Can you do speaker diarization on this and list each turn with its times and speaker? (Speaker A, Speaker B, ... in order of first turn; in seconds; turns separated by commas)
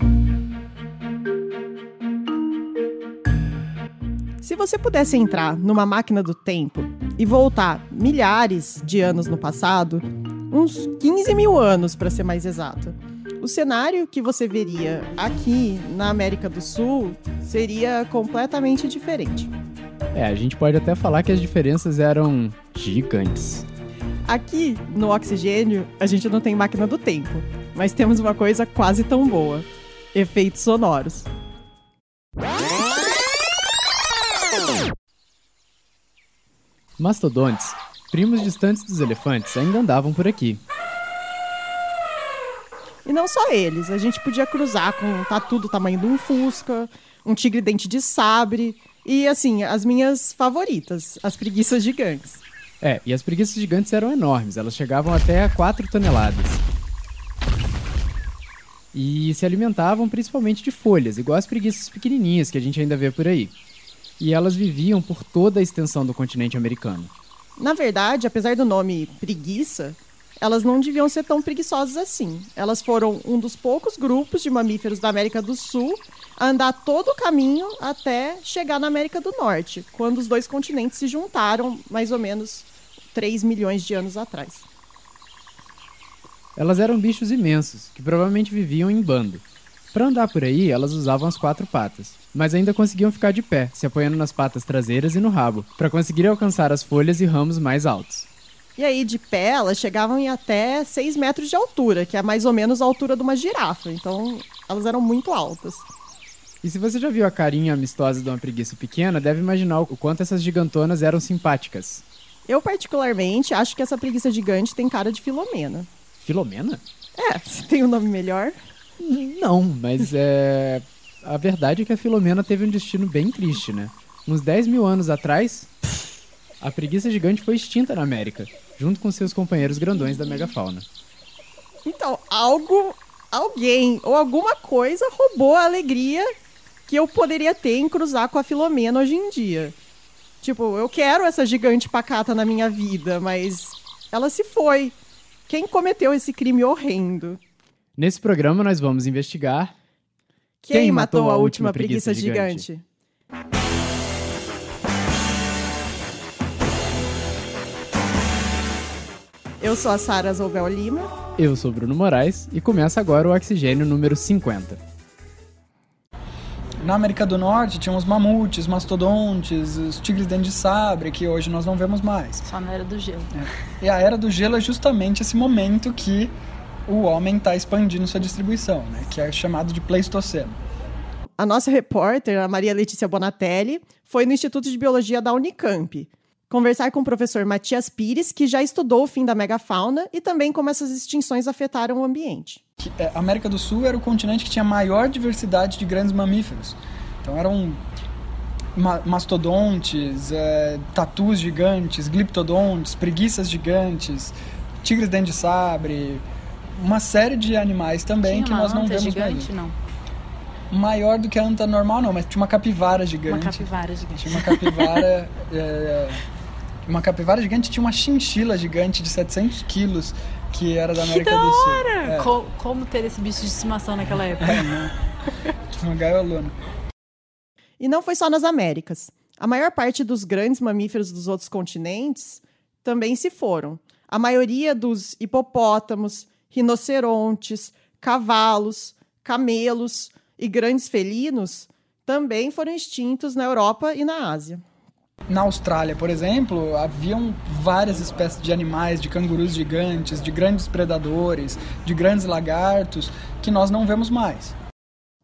Speaker A: 4.4-19.5, Speaker B: 20.1-23.7, Speaker A: 24.3-31.3, Speaker B: 37.0-40.6, Speaker A: 43.0-52.4, Speaker B: 52.8-56.6, Speaker B: 58.9-63.5, Speaker B: 64.2-67.1, Speaker A: 67.6-84.7, Speaker B: 86.6-98.3, Speaker A: 98.8-105.9, Speaker B: 106.6-112.0, Speaker A: 112.5-115.9, Speaker B: 116.2-116.8, Speaker A: 117.2-118.6, Speaker B: 119.0-125.9, Speaker B: 126.6-130.9, Speaker A: 131.8-136.3, Speaker A: 136.9-139.8, Speaker A: 140.4-144.9, Speaker A: 145.5-147.4, Speaker B: 148.0-149.7, Speaker A: 150.6-152.8, Speaker B: 150.7-152.7, Speaker A: 159.6-161.1, Speaker B: 161.4-164.8, Speaker C: 166.8-172.4, Speaker D: 172.4-173.3, Speaker C: 173.4-176.3, Speaker C: 176.9-180.6, Speaker A: 181.4-192.6, Speaker C: 192.8-197.8, Speaker C: 198.8-206.2, Speaker C: 206.8-209.5, Speaker D: 208.2-209.8, Speaker C: 210.7-216.2, Speaker D: 213.3-215.1, Speaker C: 216.9-222.3, Speaker D: 221.0-224.7, Speaker C: 224.4-224.9, Speaker C: 225.8-226.5, Speaker A: 227.8-244.6, Speaker C: 245.3-254.6